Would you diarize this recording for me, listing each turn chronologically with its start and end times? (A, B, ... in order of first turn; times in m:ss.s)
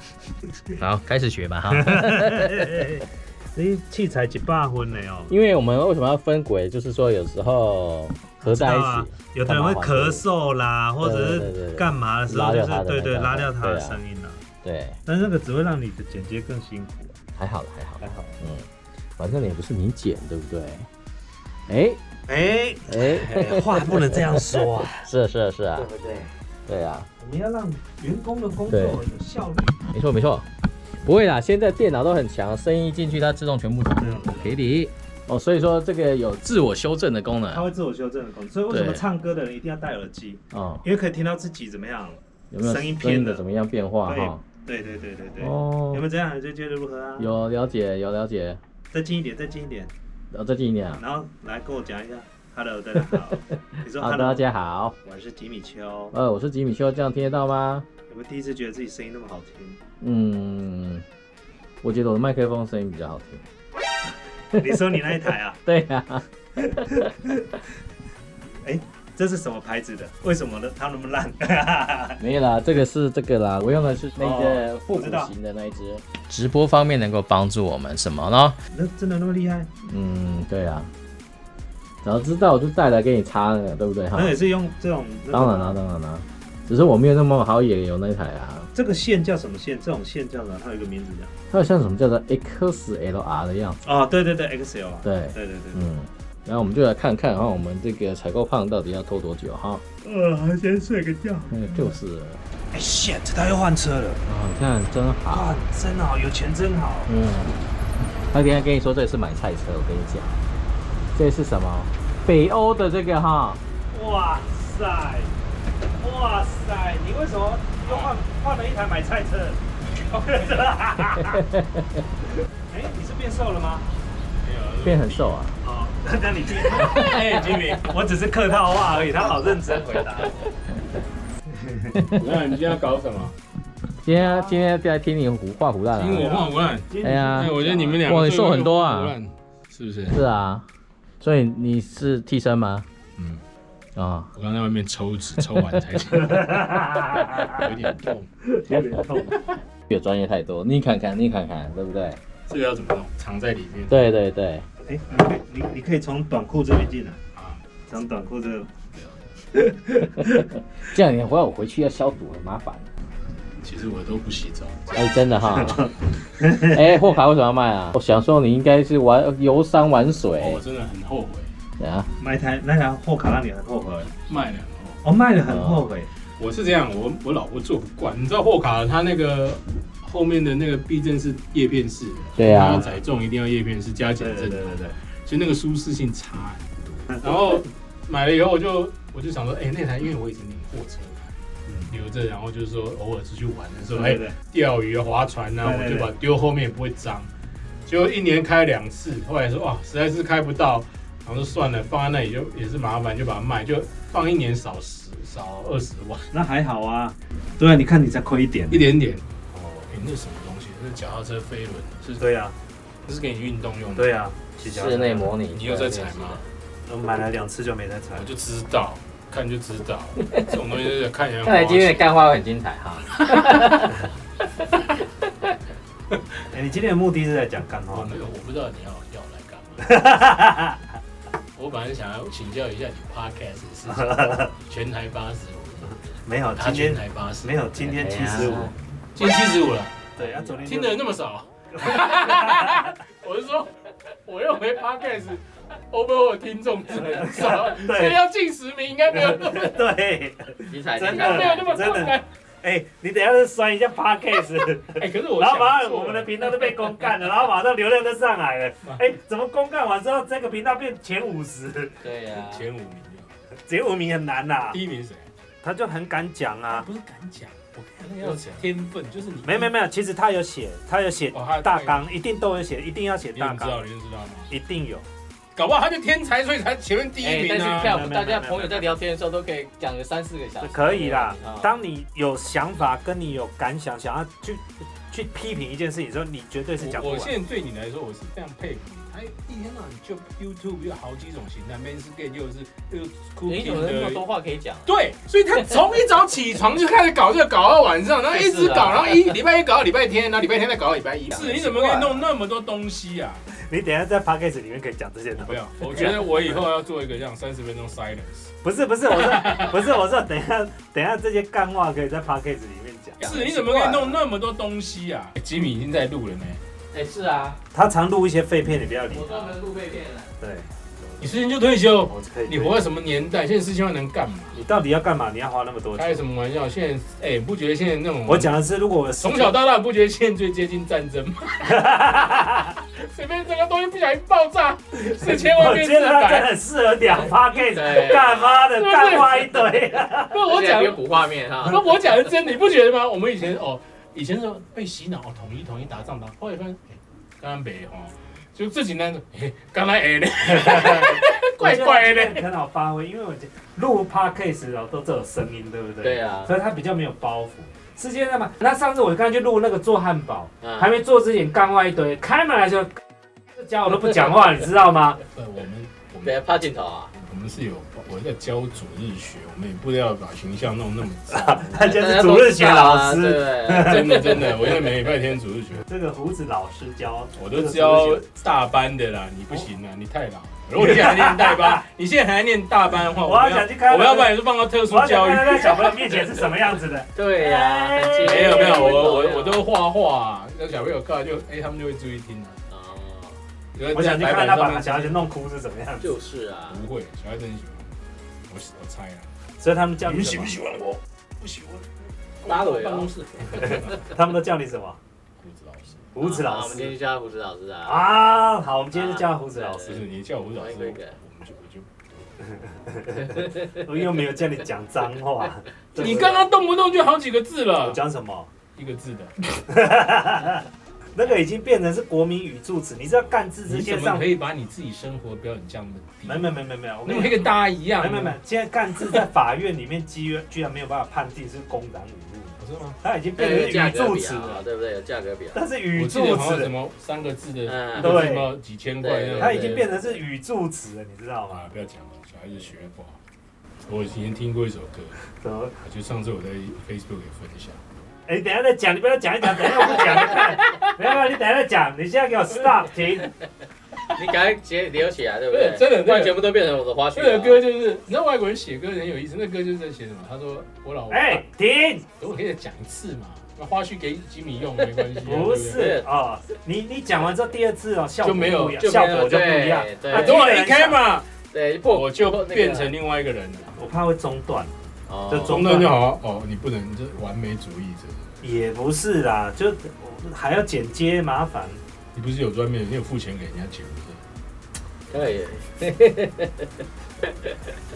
0:00.8-0:02.8 A
0:01.7-0:05.3 B
0:05.3-0:10.2 A
0:08.4-0:14.4 B
0:11.0-0:14.0 A
0:14.6-0:15.0 A
0:15.1-0:17.2 B
0:17.4-0:20.9 A
0:18.0-0:18.4 B
0:21.7-0:22.0 A
0:22.3-0:25.1 B
0:22.9-0:25.9 A
0:25.8-0:26.3 B
0:26.7-0:27.1 A
0:27.2-0:29.8 B
0:28.7-0:29.0 A
0:29.9-0:30.5 A
0:31.0-0:37.7 A
0:34.0-0:34.6 B
0:37.5-0:43.4 B
0:38.7-0:39.0 A
0:40.5-0:40.8 A
0:42.5-0:44.4 A
0:44.1-0:47.3 B
0:45.4-0:46.0 A
0:47.2-0:48.6 A
0:48.9-0:49.9 B
0:50.3-0:51.0 A
0:51.0-0:54.4 B
0:53.3-0:55.0 A
0:55.0-0:56.2 B
0:56.1-0:57.9 A
0:58.1-0:59.8 B
1:00.0-1:01.1 A
1:01.8-1:03.4 A
1:04.6-1:05.6 B
1:05.6-1:07.1 A
1:06.6-1:07.5 B
1:08.6-1:12.2 B
1:12.2-1:18.6 A
1:14.2-1:15.3 B
1:18.7-1:19.7 B
1:19.8-1:20.9 A
1:22.0-1:24.4 A
1:24.1-1:25.8 B
1:25.3-1:28.7 A
1:28.8-1:31.3 B
1:31.5-1:33.8 A
1:33.8-1:35.8 B
1:35.0-1:39.8 A
1:40.0-1:41.6 B
1:41.5-1:42.4 A
1:42.7-1:44.2 B
1:44.3-1:45.6 A
1:45.3-1:47.1 B
1:47.1-1:47.6 A
1:48.3-1:50.3 A
1:51.1-1:53.6 A
1:53.9-1:55.3 B
1:56.0-2:01.4 B
2:01.2-2:02.0 A
2:02.7-2:03.9 B
2:04.4-2:05.3 C
2:04.8-2:05.6 A
2:05.6-2:07.2 B
2:06.6-2:08.0 C
2:06.8-2:07.6 A
2:07.8-2:10.4 B
2:11.5-2:12.0 B
2:11.9-2:12.3 A
2:12.1-2:13.4 C
2:14.0-2:16.3 A
2:14.1-2:14.6 B
2:16.0-2:20.2 C
2:16.1-2:18.0 B
2:17.0-2:19.2 A
2:20.1-2:20.7 A
2:21.2-2:22.9 A
2:23.2-2:23.4 C
2:24.0-2:24.3 A
2:24.4-2:28.3 C
2:26.2-2:27.7 B
2:28.4-2:29.6 B
2:29.9-2:32.2 A
2:32.5-2:34.1 C
2:33.9-2:34.7 A
2:34.8-2:37.2 B
2:37.3-2:37.6 C
2:37.9-2:38.7 B
2:39.5-2:40.5 B
2:40.2-2:42.9 A
2:43.6-2:45.9 C
2:44.9-2:45.9 A
2:45.7-2:47.0 B
2:46.5-2:50.6 A
2:50.4-2:51.5 C
2:51.8-2:52.1 A
2:52.2-2:54.1 B
2:54.3-2:55.0 C
2:55.0-2:56.1 B
2:55.5-2:55.9 A
2:56.4-3:11.4 C
3:02.4-3:02.8 A
3:04.2-3:05.0 B
3:11.9-3:17.3 C
3:13.9-3:14.4 B
3:15.6-3:16.1 B
3:17.9-3:26.3 C
3:26.3-3:28.9 B
3:28.7-3:29.2 C
3:29.5-3:29.9 B
3:29.9-3:32.3 C
3:32.2-3:32.6 B
3:33.0-3:34.2 C
3:34.0-3:35.4 B
3:34.6-3:36.4 A
3:35.5-3:36.4 C
3:36.9-3:38.3 B
3:38.2-3:42.2 C
3:40.2-3:40.5 A
3:41.4-3:44.1 A
3:46.5-3:48.1 B
3:47.9-3:50.0 C
3:49.8-3:50.8 B
3:51.6-3:57.7 C
3:53.9-3:54.5 B
3:56.2-3:58.7 B
3:57.8-3:58.7 A
3:59.2-4:00.1 C
4:00.2-4:01.0 B
4:00.2-4:00.7 A
4:00.7-4:09.9 C
4:01.7-4:03.0 B
4:06.9-4:08.2 B
4:09.1-4:22.0 B
4:10.7-4:12.1 A
4:11.0-4:12.2 C
4:14.9-4:16.9 C
4:22.0-4:22.7 A
4:22.4-4:23.3 C
4:23.7-4:24.8 B
4:24.7-4:25.3 C
4:25.6-4:26.9 B
4:26.7-4:29.7 C
4:28.2-4:28.6 B
4:29.4-4:33.9 B
4:31.3-4:32.1 C
4:33.3-4:34.5 C
4:34.5-4:35.1 B
4:35.6-4:38.0 C
4:37.2-4:41.8 A
4:37.8-4:39.0 B
4:40.6-4:47.4 B
4:46.8-4:54.2 C
4:53.5-4:54.9 A
4:54.9-5:03.4 C
4:55.5-4:55.8 A
4:58.3-4:59.4 A
5:01.3-5:02.2 A
5:03.5-5:06.6 B
5:05.4-5:08.5 C
5:08.6-5:13.2 B
5:09.1-5:09.9 C
5:13.2-5:14.2 A
5:13.2-5:16.6 C
5:16.9-5:17.6 A
5:17.7-5:19.5 B
5:19.1-5:20.3 A
5:20.4-5:20.7 B
5:21.2-5:24.6 C
5:22.1-5:22.8 B
5:24.5-5:26.2 B
5:25.9-5:28.6 C
5:28.3-5:29.6 B
5:29.2-5:36.5 C
5:31.6-5:32.8 B
5:34.9-5:40.4 B
5:37.7-5:38.7 A
5:38.8-5:52.4 C
5:40.4-5:42.3 A
5:50.6-6:05.2 B
5:56.0-5:56.6 A
6:00.6-6:01.0 A
6:05.3-6:06.4 C
6:06.2-6:07.1 A
6:07.1-6:11.8 C
6:11.3-6:14.4 B
6:11.8-6:14.9 A
6:13.7-6:15.9 C
6:15.9-6:18.3 B
6:17.4-6:26.5 C
6:20.8-6:21.8 B
6:23.1-6:29.3 B
6:27.2-6:29.7 A
6:28.2-6:32.6 C
6:32.7-6:33.4 A
6:33.8-6:35.3 C
6:33.9-6:36.1 B
6:36.0-6:36.8 A
6:36.7-6:38.0 C
6:38.5-6:39.3 C
6:39.6-6:40.6 B
6:40.0-6:44.0 C
6:42.4-6:43.8 A
6:43.6-6:45.0 B
6:45.4-6:46.0 C
6:46.1-6:47.0 B
6:46.2-6:48.2 A
6:47.8-6:50.0 B
6:48.9-6:50.0 A
6:49.8-6:52.5 C
6:50.6-6:51.2 A
6:52.9-6:56.5 B
6:55.9-6:58.0 C
6:57.8-6:58.5 B
6:58.8-6:59.6 C
6:59.7-7:04.3 B
7:03.7-7:08.4 C
7:06.2-7:14.6 B
7:12.6-7:13.0 C
7:13.4-7:15.6 A
7:15.5-7:16.8 B
7:15.9-7:19.9 C
7:17.6-7:18.4 A
7:18.0-7:18.5 B
7:19.0-7:20.0 A
7:19.4-7:21.7 B
7:21.5-7:23.2 C
7:23.9-7:25.2 C
7:25.3-7:25.8 B
7:25.8-7:27.8 C
7:28.3-7:33.3 B
7:34.1-7:37.6 A
7:35.5-7:41.4 C
7:41.1-7:42.1 B
7:42.2-7:46.0 C
7:45.2-7:51.1 B
7:45.6-7:46.1 A
7:48.2-7:49.2 C
7:48.8-7:50.4 A
7:50.1-7:51.3 C
7:51.5-7:52.9 A
7:51.9-7:53.8 C
7:53.8-7:54.7 B
7:55.1-7:55.8 A
7:55.3-7:56.0 B
7:55.4-7:58.3 C
7:58.4-8:01.8 B
8:02.2-8:04.2 C
8:05.1-8:07.6 A